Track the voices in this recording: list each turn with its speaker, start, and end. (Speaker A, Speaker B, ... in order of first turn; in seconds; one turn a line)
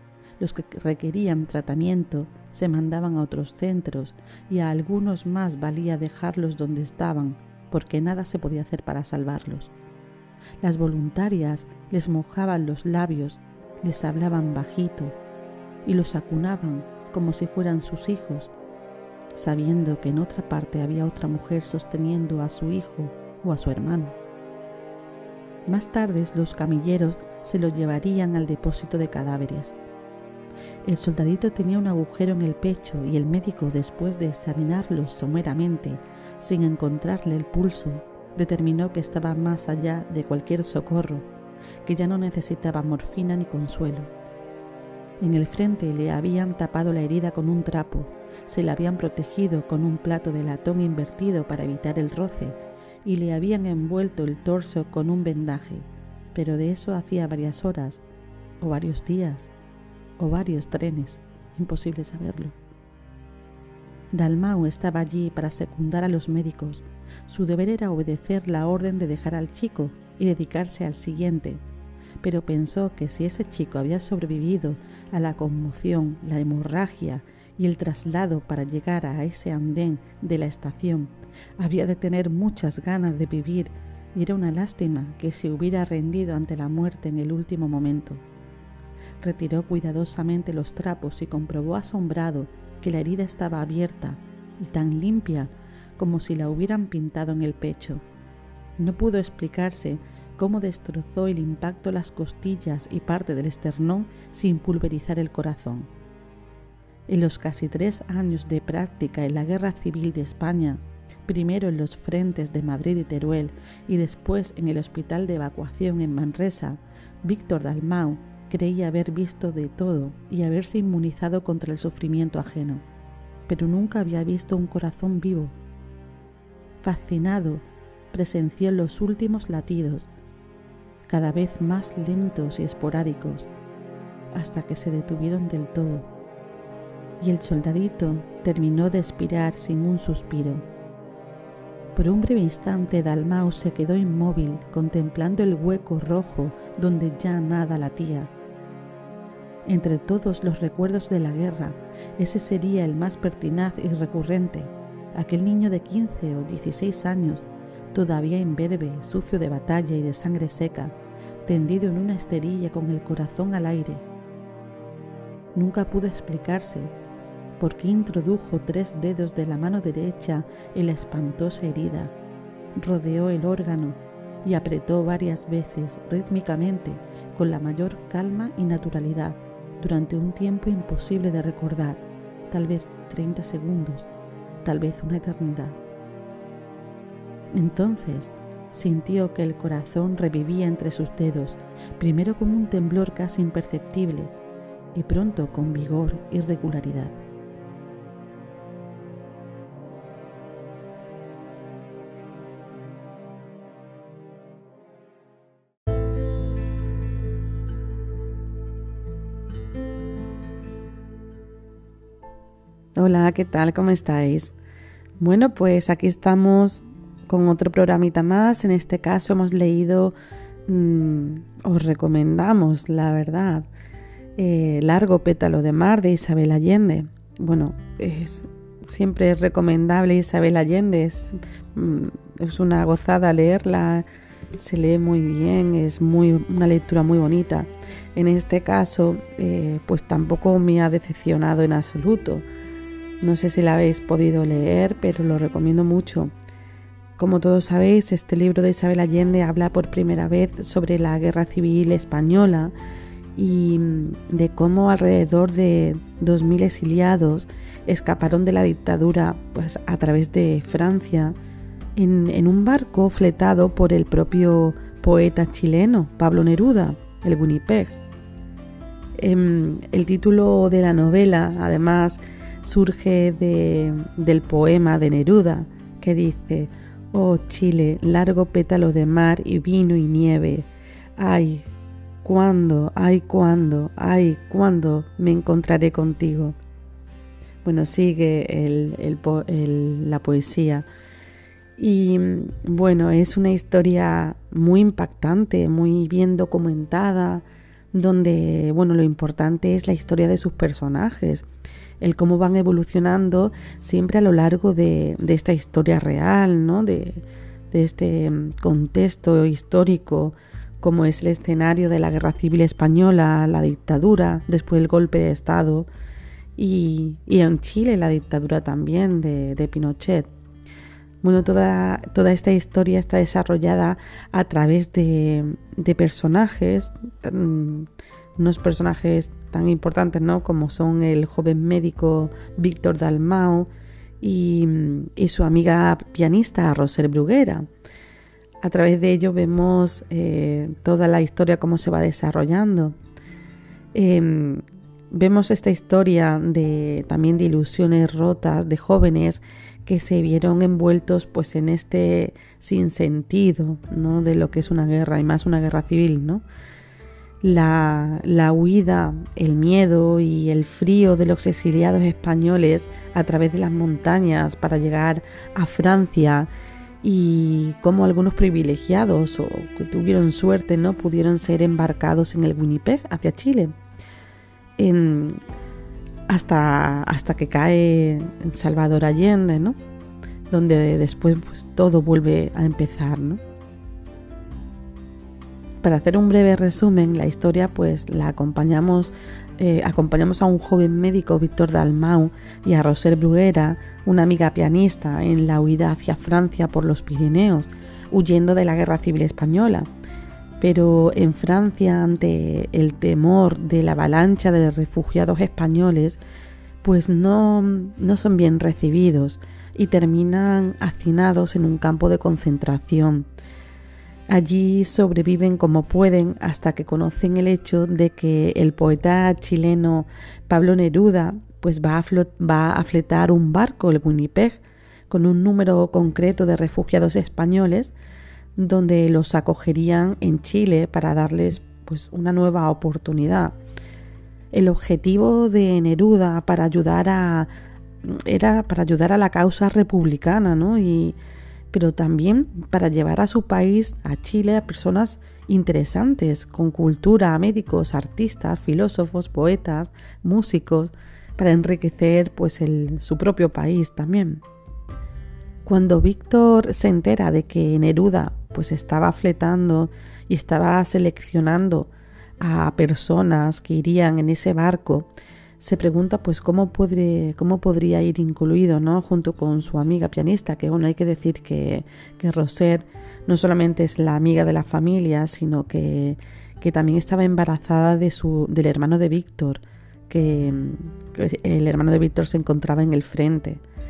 Speaker A: 0.4-9.7
Speaker A: 10.6-15.2
Speaker A: 15.8-18.5
Speaker A: 19.3-24.1
Speaker A: 25.6-29.8
Speaker A: 30.8-41.3
Speaker A: 41.8-44.1
Speaker A: 45.2-58.0
Speaker A: 58.6-59.5
Speaker A: 60.2-62.5
Speaker A: 64.1-71.6
Speaker A: 72.2-88.2
Speaker A: 89.2-98.0
Speaker A: 98.8-105.9
Speaker A: 107.1-122.8
Speaker A: 123.5-125.5
Speaker A: 126.8-130.1
Speaker A: 131.1-133.5
Speaker A: 134.3-136.1
Speaker A: 137.2-140.6
Speaker A: 141.9-148.3
Speaker A: 149.7-164.1
Speaker A: 165.5-166.9
Speaker A: 167.6-172.1
Speaker A: 172.8-184.1
Speaker A: 184.6-185.8
Speaker A: 187.5-194.3
Speaker A: 194.9-197.2
Speaker A: 212.9-214.5
Speaker A: 215.2-220.1
Speaker A: 220.7-223.7
Speaker A: 224.4-242.4
Speaker A: 243.2-246.3
Speaker A: 247.2-252.7
Speaker A: 253.3-261.4
Speaker A: 261.9-267.9
Speaker A: 269.2-281.7
Speaker A: 282.2-286.6
Speaker A: 287.6-290.9
Speaker A: 291.8-301.4
Speaker A: 302.0-315.9
Speaker A: 316.6-320.3
Speaker A: 321.2-333.7
Speaker A: 334.2-337.7
Speaker A: 338.6-342.9
Speaker A: 343.9-356.4
Speaker A: 357.4-366.5
Speaker A: 367.0-373.7
Speaker A: 374.8-375.4
Speaker A: 376.3-379.8
Speaker A: 380.5-383.4
Speaker A: 385.8-399.9
Speaker A: 400.6-406.2
Speaker A: 406.8-413.3
Speaker A: 414.3-427.9
Speaker A: 428.6-433.6
Speaker A: 434.5-437.5
Speaker A: 438.0-441.2
Speaker A: 441.7-454.4
Speaker A: 455.6-483.6